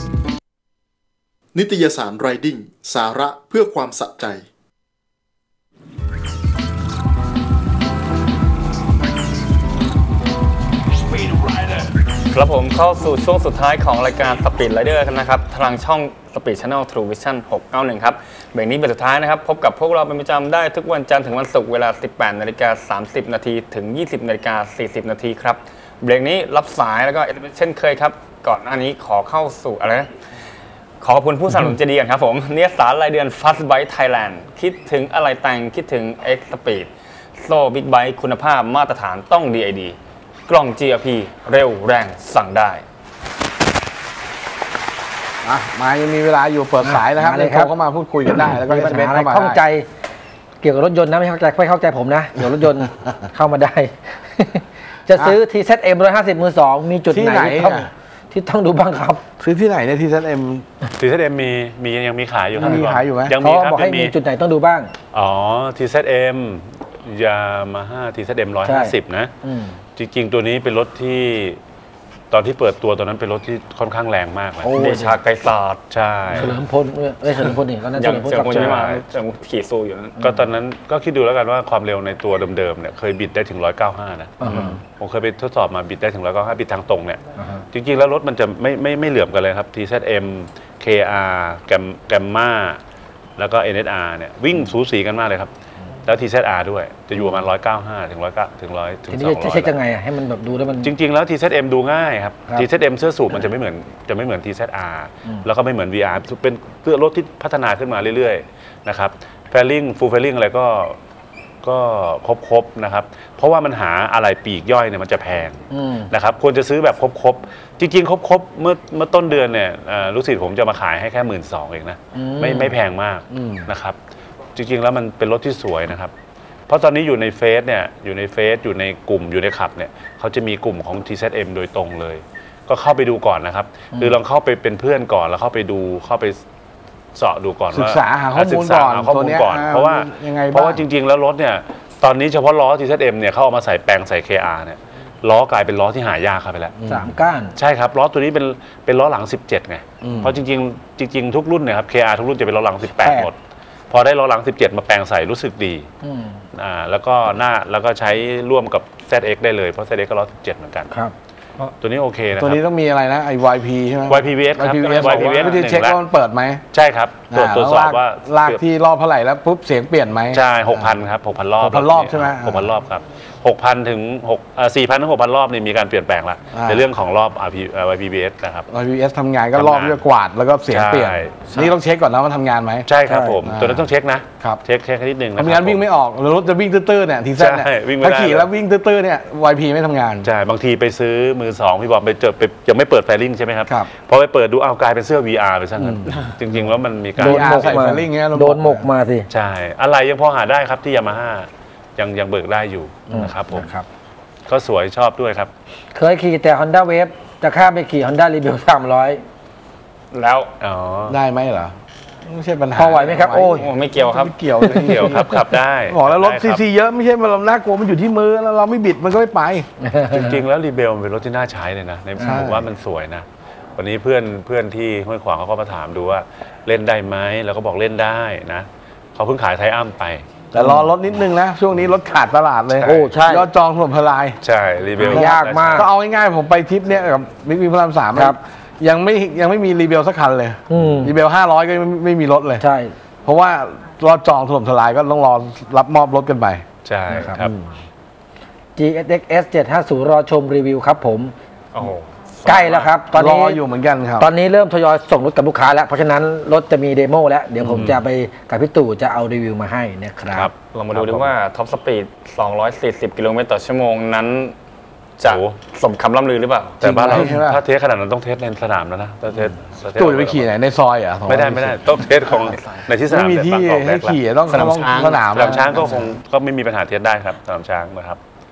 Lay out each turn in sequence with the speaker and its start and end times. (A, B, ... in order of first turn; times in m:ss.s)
0:01.5-0:04.4 A
0:11.1-0:30.1 B
0:31.0-0:42.8 B
0:45.4-0:49.6 C
0:46.8-0:47.7 D
0:48.3-0:49.9 D
0:50.6-0:59.2 D
0:57.1-0:57.9 C
0:59.4-1:00.6 C
1:01.0-1:04.1 E
1:02.6-1:03.3 C
1:03.4-1:04.9 D
1:05.1-1:09.3 E
1:08.6-1:09.8 D
1:10.0-1:11.6 E
1:12.3-1:14.8 E
1:14.6-1:15.2 D
1:14.7-1:15.8 B
1:15.9-1:16.5 E
1:16.3-1:18.9 D
1:18.0-1:20.2 B
1:18.5-1:19.0 E
1:20.2-1:27.2 E
1:24.4-1:24.8 D
1:27.4-1:27.6 D
1:27.7-1:32.8 E
1:33.4-1:35.5 E
1:36.0-1:39.8 E
1:39.1-1:40.9 D
1:40.8-1:51.0 E
1:51.6-2:04.0 E
1:55.7-1:56.1 D
2:02.1-2:02.8 D
2:03.3-2:03.7 C
2:04.5-2:06.1 E
2:06.7-2:16.4 E
2:17.1-2:26.8 E
2:17.7-2:20.8 C
2:26.8-2:27.1 C
2:26.8-2:27.6 D
2:27.6-2:33.4 E
2:30.0-2:30.4 C
2:33.0-2:33.3 D
2:33.9-2:35.9 E
2:36.0-2:36.4 D
2:36.5-2:40.9 E
2:41.8-2:42.6 E
2:42.4-2:46.6 C
2:44.1-2:46.0 E
2:45.1-2:45.6 B
2:46.7-2:48.6 E
2:47.3-2:50.9 C
2:50.3-2:58.7 E
2:51.6-2:52.7 C
2:56.5-2:56.8 C
2:58.7-3:02.9 C
2:59.5-3:00.0 E
3:00.7-3:01.5 E
3:02.8-3:05.8 E
3:03.0-3:03.4 D
3:03.4-3:03.9 C
3:05.4-3:10.3 C
3:07.4-3:08.5 E
3:10.2-3:17.8 E
3:15.8-3:16.1 C
3:17.2-3:19.3 D
3:17.2-3:18.9 C
3:19.3-3:23.7 E
3:23.1-3:23.9 D
3:24.5-3:25.5 E
3:25.9-3:29.2 D
3:30.1-3:30.5 B
3:30.6-3:31.2 E
3:31.1-3:39.7 C
3:32.7-3:33.7 D
3:33.3-3:34.3 B
3:34.6-3:35.3 D
3:34.7-3:36.6 E
3:39.8-3:40.4 D
3:40.1-3:50.2 E
3:42.2-3:42.5 D
3:42.2-3:42.7 C
3:50.5-3:54.4 C
3:50.6-3:50.9 D
3:52.8-3:53.1 E
3:52.8-3:53.5 D
3:54.4-3:55.9 E
3:55.0-3:55.9 D
3:55.0-4:02.6 C
4:00.7-4:01.2 D
4:02.6-4:02.9 D
4:03.2-4:06.6 C
4:06.8-4:07.5 E
4:07.1-4:07.5 D
4:08.8-4:11.3 D
4:11.7-4:12.9 B
4:12.4-4:13.6 D
4:13.1-4:14.3 C
4:14.2-4:20.5 D
4:17.7-4:18.0 E
4:20.3-4:21.3 E
4:20.7-4:24.5 B
4:25.2-4:27.2 B
4:25.2-4:25.6 E
4:26.8-4:30.5 E
4:26.8-4:27.6 C
4:30.0-4:32.0 C
4:31.3-4:34.2 E
4:32.3-4:32.8 B
4:33.1-4:35.7 C
4:34.5-4:36.0 B
4:35.3-4:38.2 E